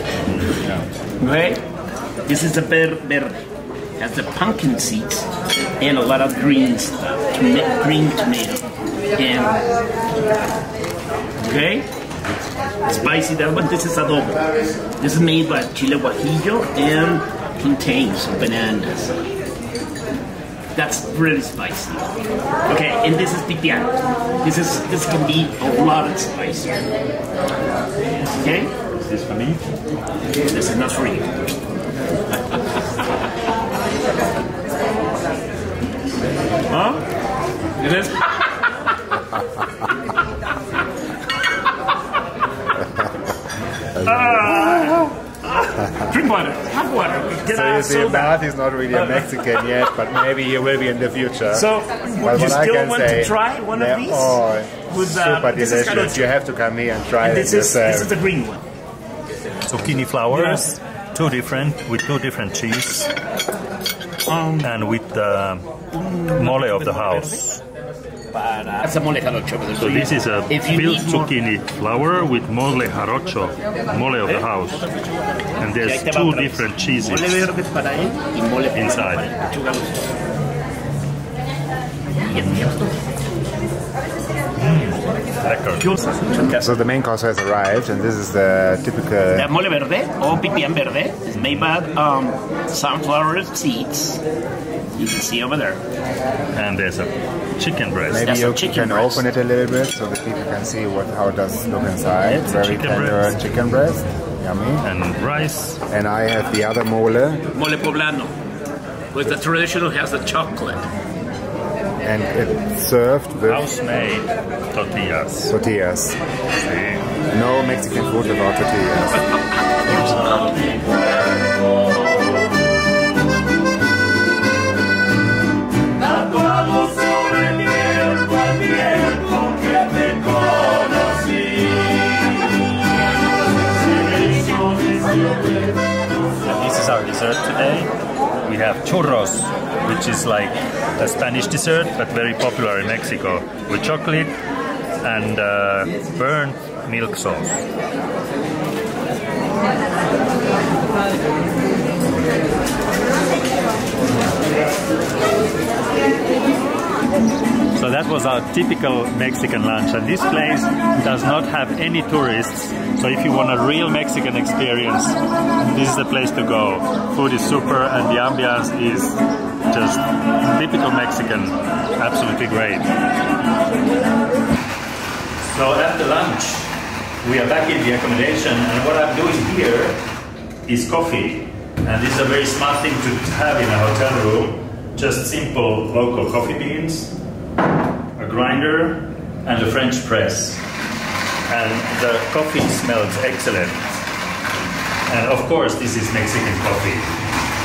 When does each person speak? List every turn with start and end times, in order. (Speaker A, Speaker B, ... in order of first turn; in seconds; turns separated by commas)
Speaker A: 1.2-1.6, Speaker A: 2.2-3.4, Speaker A: 4.0-5.3, Speaker A: 5.8-8.6, Speaker A: 9.1-9.6, Speaker A: 11.4-11.9, Speaker A: 12.9-14.4, Speaker A: 15.0-19.2, Speaker A: 20.7-22.1, Speaker A: 22.6-26.8, Speaker A: 28.4-28.7, Speaker B: 29.0-29.6, Speaker A: 30.4-31.3, Speaker A: 36.7-37.0, Speaker A: 37.8-38.5, Speaker A: 44.0-48.4, Speaker C: 47.5-51.7, Speaker A: 49.0-49.4, Speaker A: 51.5-56.3, Speaker C: 52.2-58.1, Speaker A: 57.2-58.6, Speaker B: 59.6-63.1, Speaker A: 60.3-60.6, Speaker A: 64.2-64.7, Speaker B: 64.6-65.7, Speaker A: 65.9-67.3, Speaker B: 66.2-67.6, Speaker A: 68.3-71.3, Speaker B: 69.8-74.8, Speaker B: 75.6-77.5, Speaker A: 75.7-80.1, Speaker B: 78.7-79.2, Speaker B: 82.3-82.7, Speaker A: 82.3-82.7, Speaker B: 84.5-85.8, Speaker A: 85.8-86.8, Speaker C: 86.6-89.5, Speaker A: 89.3-94.2, Speaker A: 95.0-95.8, Speaker B: 96.5-98.3, Speaker C: 98.1-104.9, Speaker A: 98.2-99.2, Speaker B: 102.3-103.4, Speaker B: 104.8-105.8, Speaker C: 105.9-107.4, Speaker A: 107.5-108.3, Speaker A: 109.1-110.8, Speaker C: 112.0-113.6, Speaker B: 113.5-115.5, Speaker C: 115.5-116.2, Speaker B: 116.6-117.1, Speaker C: 117.3-119.2, Speaker A: 119.8-120.4, Speaker B: 134.2-134.8, Speaker B: 136.4-137.9, Speaker B: 138.4-144.3, Speaker B: 145.0-147.6, Speaker B: 157.7-169.2, Speaker B: 169.7-172.9, Speaker B: 175.4-180.0, Speaker B: 180.7-187.1, Speaker B: 188.2-190.6, Speaker B: 191.5-193.8, Speaker B: 195.1-197.1